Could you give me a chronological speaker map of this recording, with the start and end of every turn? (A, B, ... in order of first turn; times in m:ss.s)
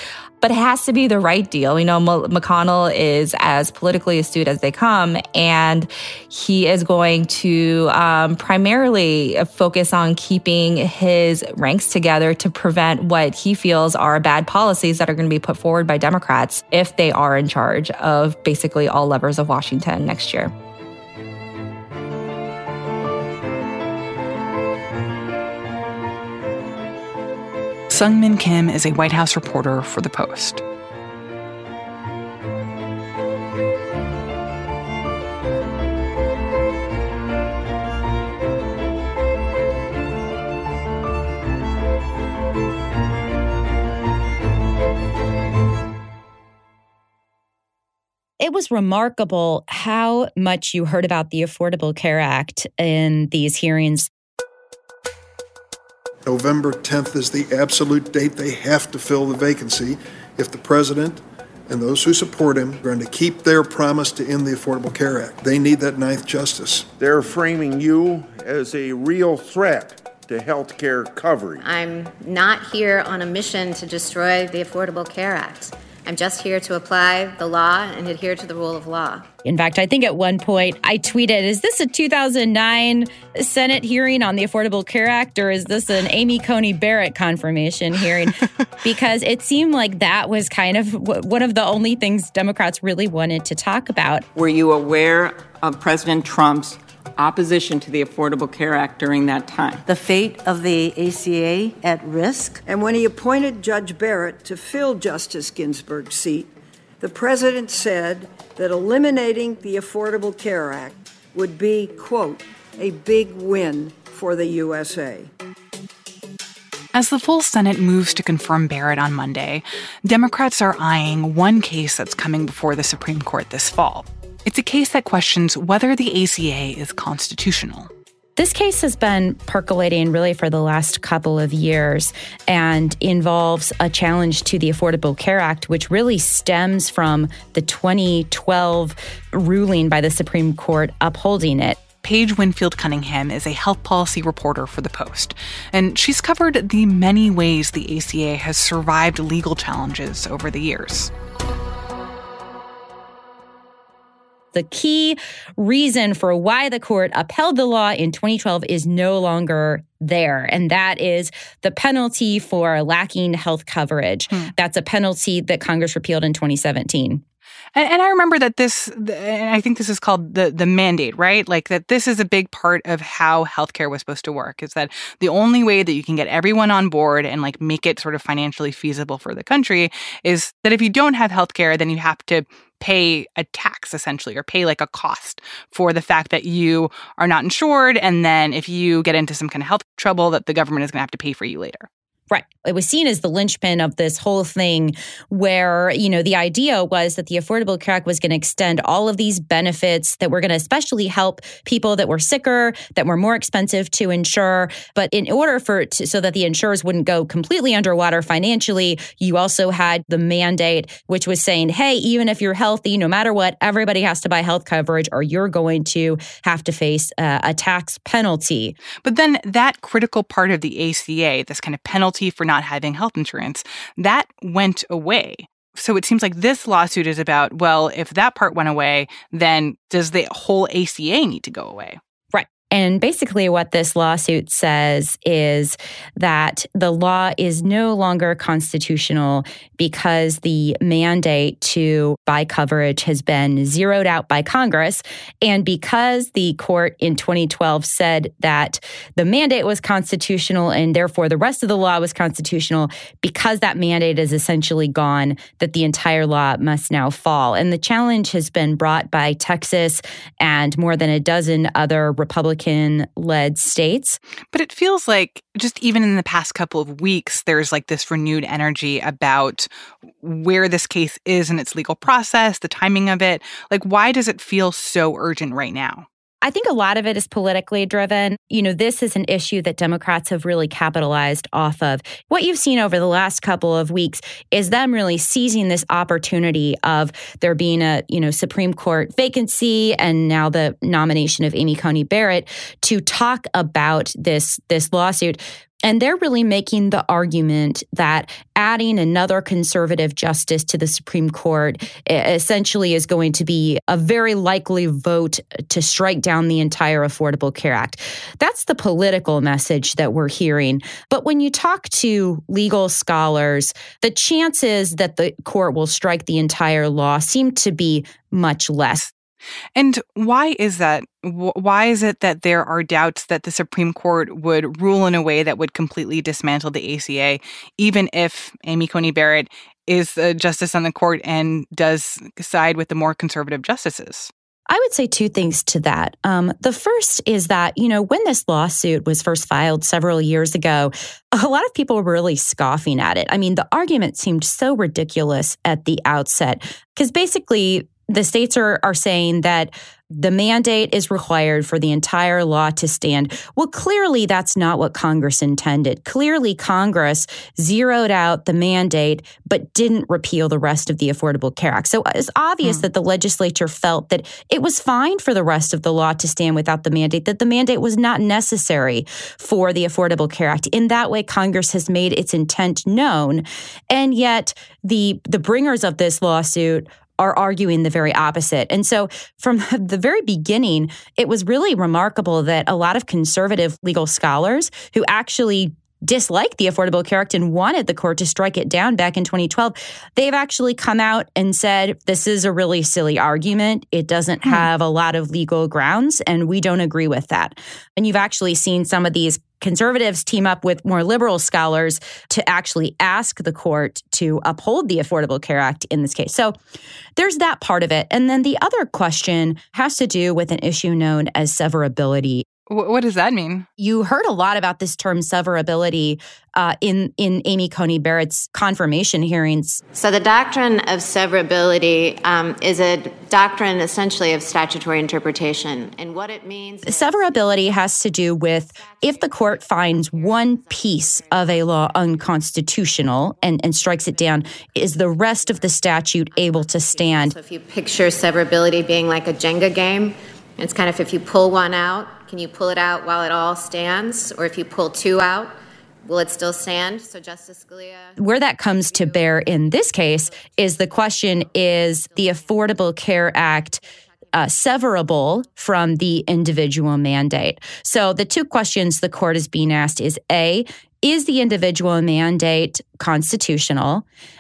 0:00.4-0:20.5 A
0:27.9-0:30.6 B
0:48.4-0:54.1 C
0:56.3-1:06.9 D
1:07.0-1:11.6 E
1:11.6-1:19.3 F
1:19.4-1:34.3 C
1:34.4-1:39.8 G
1:39.9-1:42.6 H
1:42.7-1:55.3 I
1:56.9-2:07.9 B
2:08.4-2:21.8 C
2:22.0-2:31.1 B
2:34.5-2:47.2 C
2:47.8-3:11.9 B
3:12.3-3:38.8 C
3:39.0-3:52.0 B
3:52.3-4:24.2 C
4:24.5-4:29.7 B
4:30.2-4:36.1 B
4:36.4-5:19.1 C
5:19.8-5:34.3 B
5:34.7-6:46.6 C
6:47.2-6:52.4 C
6:52.7-6:53.7 B
6:53.8-6:59.8 C
6:59.9-7:07.5 F
7:06.8-7:17.4 C
7:08.8-7:12.2 F
7:14.9-7:25.5 F
7:26.1-7:28.2 F
7:28.2-7:44.0 C
7:28.7-7:32.7 F